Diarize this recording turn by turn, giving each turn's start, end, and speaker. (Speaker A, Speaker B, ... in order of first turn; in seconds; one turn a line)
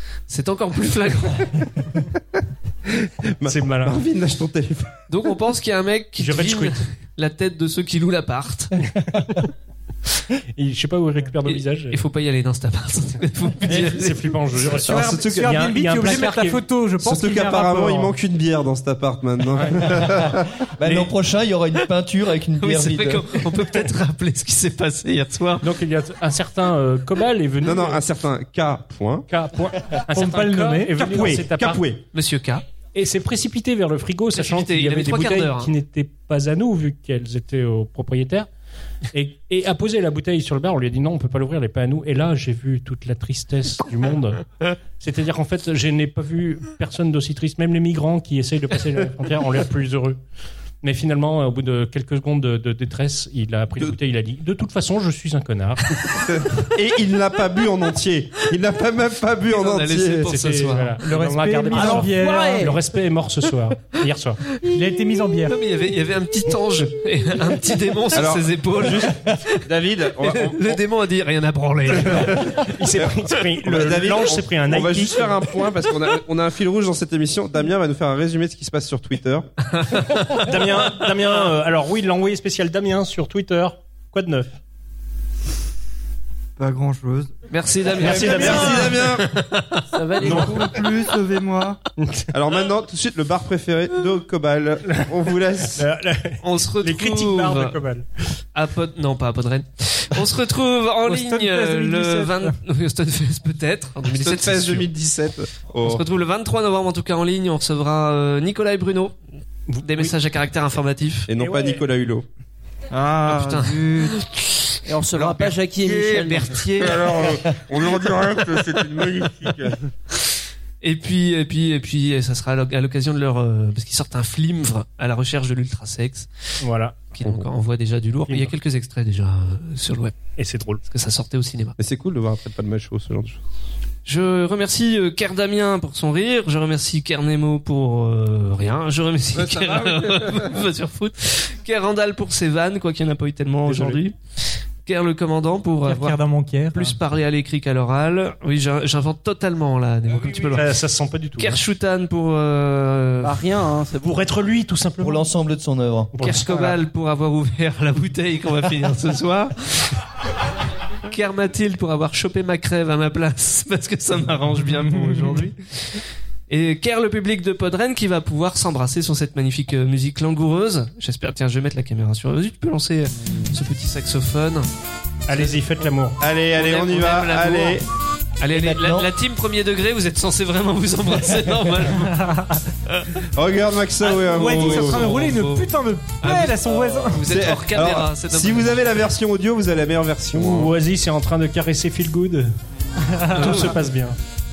Speaker A: 0.3-1.7
Speaker B: 2.9-4.9
Speaker C: 3.5-4.0
Speaker A: 5.1-8.8
Speaker C: 6.2-6.8
Speaker C: 8.9-9.4
Speaker C: 10.6-12.0
Speaker A: 11.5-14.3
Speaker C: 13.6-16.6
Speaker D: 14.8-18.1
Speaker B: 14.9-15.7
Speaker B: 17.0-21.0
Speaker C: 19.6-19.9
Speaker E: 20.8-23.4
Speaker A: 22.6-25.7
Speaker C: 25.6-28.0
Speaker B: 27.6-29.3
Speaker C: 29.3-31.9
Speaker D: 30.1-31.4
Speaker B: 31.2-32.0
Speaker A: 32.1-32.6
Speaker C: 32.9-38.5
Speaker A: 34.3-35.7
Speaker C: 39.1-44.4
Speaker C: 45.0-50.2
Speaker C: 50.8-55.8
Speaker B: 56.2-60.3
Speaker A: 59.5-61.0
Speaker C: 60.3-64.4
Speaker D: 61.0-62.7
Speaker F: 61.7-62.8
Speaker D: 64.7-65.5
Speaker A: 65.5-69.6
Speaker B: 68.1-70.8
Speaker A: 70.2-72.7
Speaker B: 71.9-72.6
Speaker C: 72.3-75.3
Speaker B: 73.6-79.5
Speaker A: 79.8-80.5
Speaker C: 80.4-84.6
Speaker G: 86.6-87.3
Speaker A: 87.5-89.8
Speaker C: 87.9-89.2
Speaker B: 88.0-89.3
Speaker D: 88.4-88.9
Speaker F: 89.9-90.8
Speaker C: 90.2-90.7
Speaker G: 90.3-91.8
Speaker C: 92.0-92.3
Speaker B: 92.3-95.8
Speaker C: 95.8-98.1
Speaker A: 96.4-97.8
Speaker A: 98.5-104.9
Speaker D: 101.1-102.6
Speaker B: 104.1-106.0
Speaker A: 105.8-109.1
Speaker C: 109.7-110.1
Speaker A: 109.8-111.3
Speaker B: 111.3-112.2
Speaker C: 111.3-111.8
Speaker G: 112.9-114.2
Speaker A: 113.2-117.3
Speaker F: 114.9-116.8
Speaker B: 116.8-119.9
Speaker A: 120.8-126.3
Speaker C: 126.6-127.1
Speaker A: 127.1-130.2
Speaker C: 128.3-128.5
Speaker C: 130.4-130.8
Speaker A: 130.8-131.8
Speaker B: 131.8-133.4
Speaker A: 134.1-146.2
Speaker B: 139.3-140.6
Speaker C: 143.6-144.0
Speaker D: 145.8-147.0
Speaker A: 146.7-150.8
Speaker C: 150.4-151.6
Speaker A: 151.4-153.5
Speaker F: 153.2-154.3
Speaker C: 154.0-155.3
Speaker E: 155.0-156.1
Speaker C: 156.1-156.8
Speaker A: 156.2-160.0
Speaker A: 161.1-174.7
Speaker C: 175.3-176.2
Speaker A: 175.3-175.6
Speaker B: 176.2-177.8
Speaker A: 176.6-177.8
Speaker A: 178.4-183.2
Speaker E: 178.5-179.1
Speaker D: 182.2-182.5
Speaker B: 183.4-185.1
Speaker A: 184.0-185.7
Speaker D: 184.2-187.2
Speaker A: 186.2-189.1
Speaker B: 187.2-190.7
Speaker C: 190.3-192.5
Speaker A: 193.3-193.8
Speaker C: 193.3-194.2